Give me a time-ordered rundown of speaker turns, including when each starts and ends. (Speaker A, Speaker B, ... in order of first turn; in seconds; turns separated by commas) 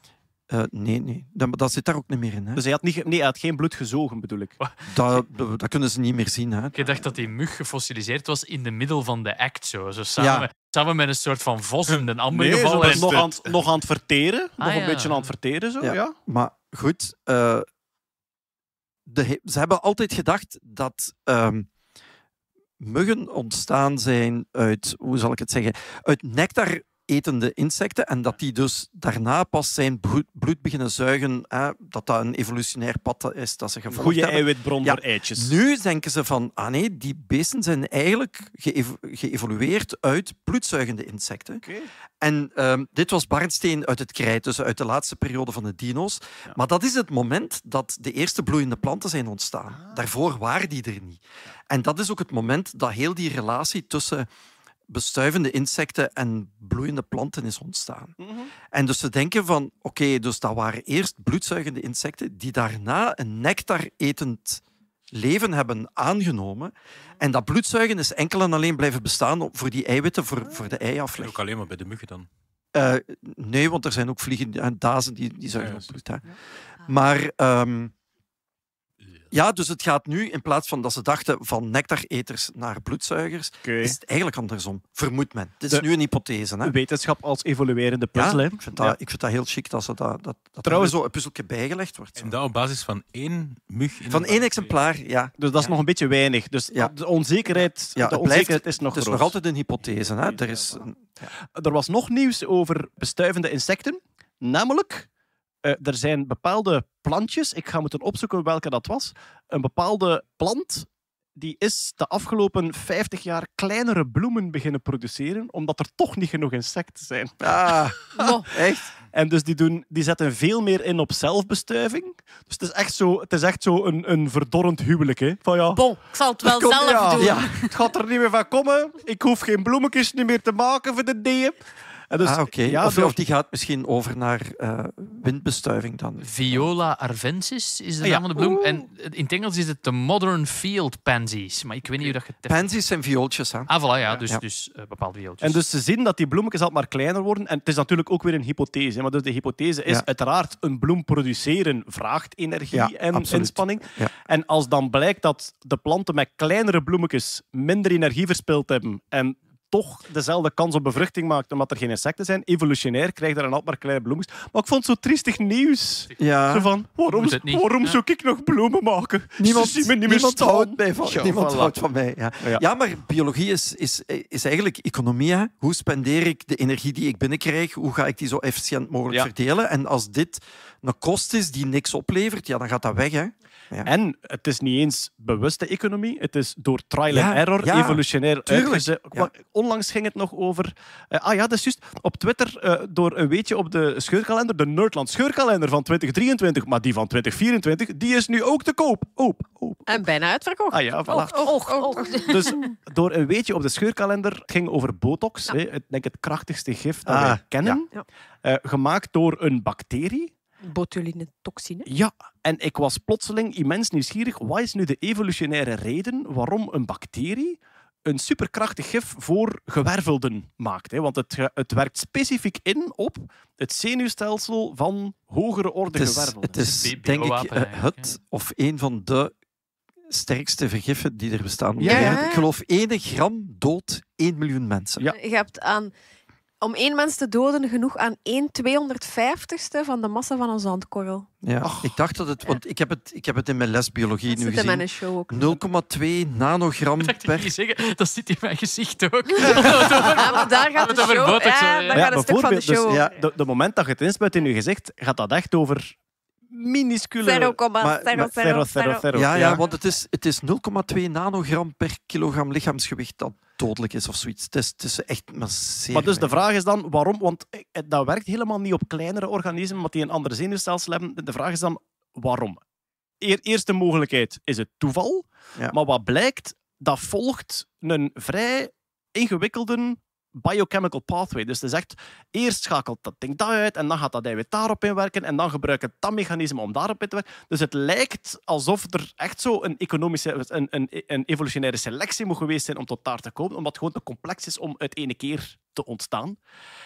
Speaker A: 0.5-2.6, Speaker B: 2.6-4.6, Speaker A: 4.9-7.0, Speaker C: 6.7-13.2, Speaker A: 10.2-10.5, Speaker B: 12.3-16.1, Speaker D: 12.8-13.6, Speaker C: 14.6-15.3, Speaker A: 15.8-17.7, Speaker A: 19.1-21.7, Speaker A: 22.8-41.6, Speaker B: 33.9-35.5, Speaker B: 41.6-41.9, Speaker A: 42.2-54.3, Speaker A: 54.9-58.2, Speaker B: 58.2-58.5, Speaker A: 58.7-71.4, Speaker D: 71.2-72.3, Speaker A: 72.7-76.2, Speaker D: 75.6-76.0, Speaker A: 76.8-77.9, Speaker A: 79.3-86.7, Speaker B: 83.7-84.0, Speaker B: 86.6-89.0, Speaker A: 88.2-92.3, Speaker B: 90.7-91.0, Speaker D: 92.2-94.7, Speaker A: 94.1-95.7, Speaker B: 95.4-99.3, Speaker A: 97.6-101.3, Speaker B: 99.9-100.8, Speaker B: 101.6-105.1, Speaker B: 105.6-117.8, Speaker A: 117.4-118.9, Speaker E: 118.1-118.5, Speaker B: 119.1-125.8, Speaker F: 125.8-127.7, Speaker A: 126.5-127.5, Speaker B: 126.8-131.6, Speaker B: 132.1-133.2, Speaker A: 132.2-136.7, Speaker C: 136.2-142.8, Speaker B: 138.0-138.9, Speaker A: 142.5-143.7, Speaker C: 143.7-145.6, Speaker B: 145.4-171.7, Speaker A: 152.7-154.1, Speaker A: 166.2-166.7, Speaker C: 167.1-168.0, Speaker A: 169.4-183.9, Speaker B: 183.8-200.0, Speaker A: 187.1-189.3, Speaker E: 199.9-202.7, Speaker B: 200.7-201.3, Speaker F: 201.1-202.7, Speaker B: 202.3-207.9, Speaker A: 207.1-207.8, Speaker B: 208.4-210.3, Speaker E: 210.6-211.9, Speaker B: 211.9-226.6, Speaker A: 225.9-229.3, Speaker C: 226.6-228.1, Speaker A: 230.1-235.1, Speaker B: 231.8-232.2, Speaker E: 231.8-232.5, Speaker E: 235.1-235.9, Speaker E: 236.6-241.3, Speaker A: 241.4-247.5, Speaker B: 241.6-241.9, Speaker E: 244.3-245.6, Speaker C: 247.0-252.1, Speaker B: 249.4-250.1, Speaker E: 249.5-253.1, Speaker B: 251.9-256.0, Speaker B: 256.5-257.6, Speaker E: 257.2-259.1, Speaker A: 257.8-258.3, Speaker B: 258.1-259.6, Speaker A: 259.1-266.3, Speaker B: 265.9-272.6, Speaker B: 273.2-296.4